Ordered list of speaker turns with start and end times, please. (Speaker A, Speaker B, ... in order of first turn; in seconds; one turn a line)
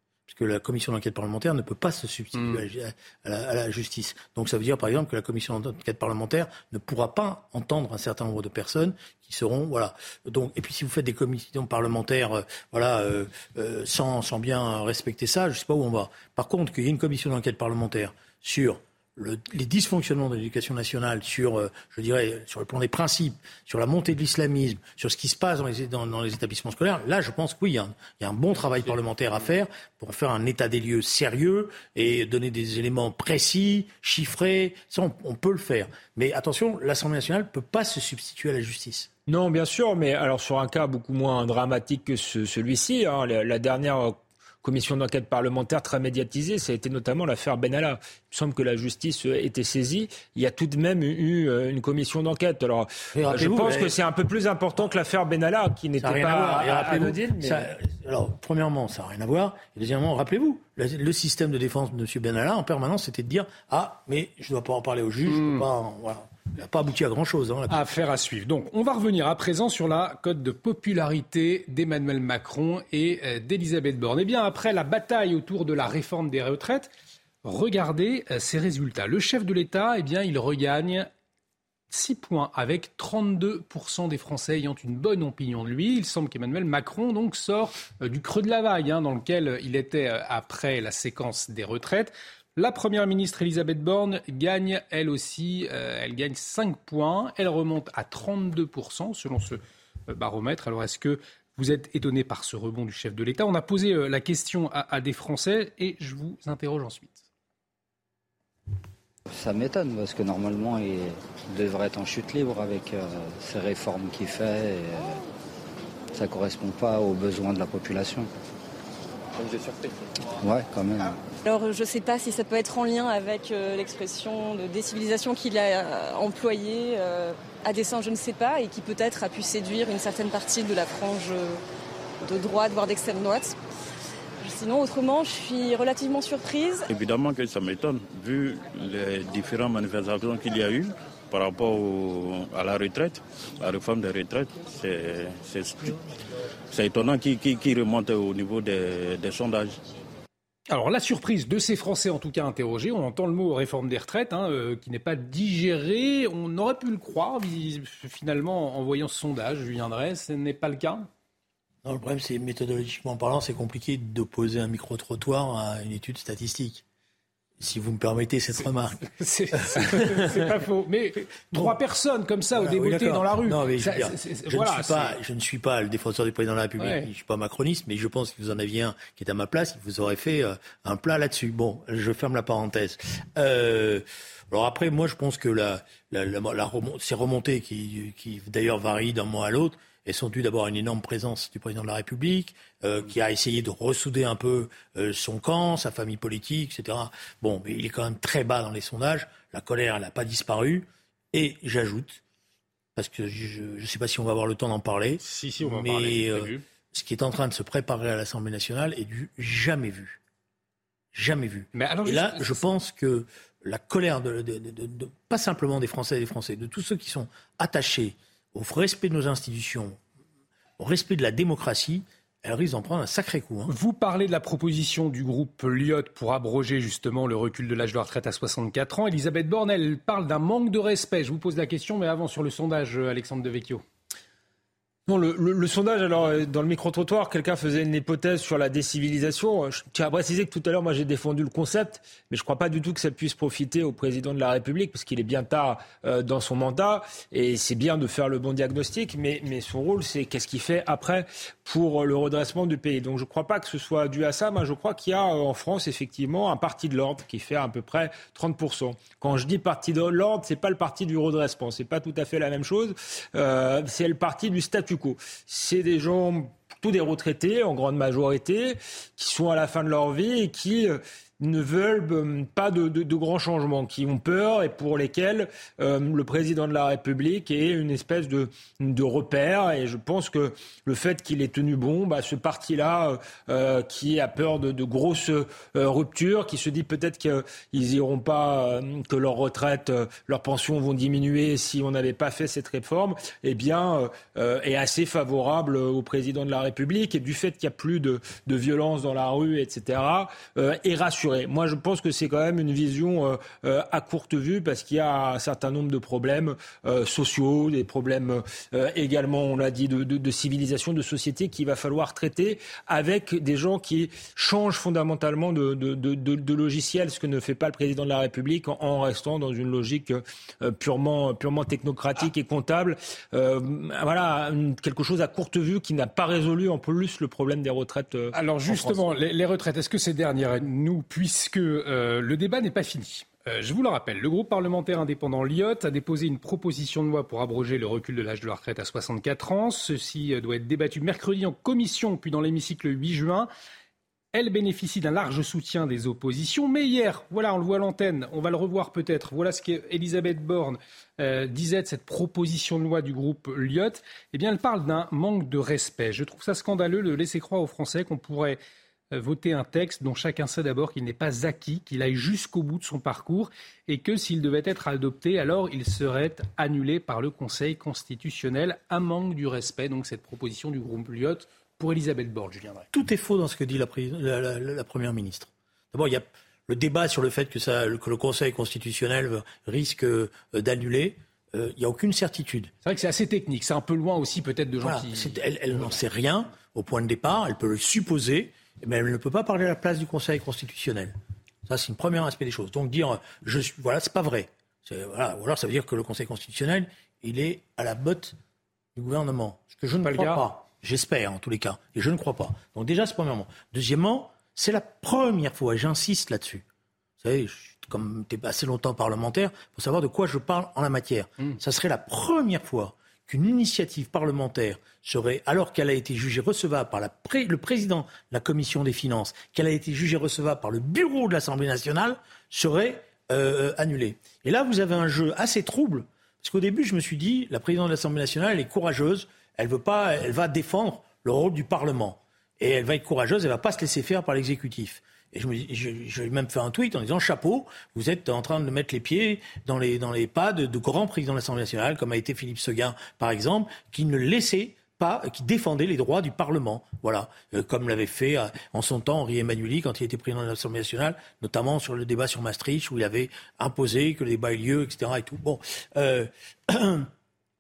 Speaker A: 0.3-39.1
Speaker B: 2.4-2.6
Speaker C: 39.3-57.7
Speaker A: 53.1-54.0
Speaker A: 56.0-67.8
Speaker B: 65.3-65.7
Speaker B: 67.7-76.9
Speaker B: 77.4-81.1
Speaker B: 81.9-107.3
Speaker D: 109.3-115.2
Speaker D: 116.1-118.3
Speaker D: 120.4-121.2
Speaker E: 121.5-131.6
Speaker E: 132.2-133.6
Speaker E: 134.4-136.9
Speaker F: 136.9-146.0
Speaker F: 146.7-149.8
Speaker B: 150.7-161.1
Speaker A: 161.8-166.8
Speaker A: 167.6-170.4
Speaker B: 169.1-175.2
Speaker A: 171.5-171.8
Speaker A: 172.6-202.2
Speaker B: 176.8-177.1
Speaker A: 202.9-210.2
Speaker B: 205.2-206.6
Speaker A: 211.1-220.0
Speaker B: 211.7-212.7
Speaker A: 220.8-223.7
Speaker B: 223.7-233.8
Speaker C: 235.1-329.0
Speaker B: 328.3-343.5
Speaker B: 344.3-358.6
Speaker B: 359.1-372.9
Speaker A: 372.9-382.7
Speaker B: 382.8-385.4
Speaker A: 384.8-398.4
Speaker A: 398.9-406.6
Speaker B: 400.0-400.4
Speaker A: 407.2-457.1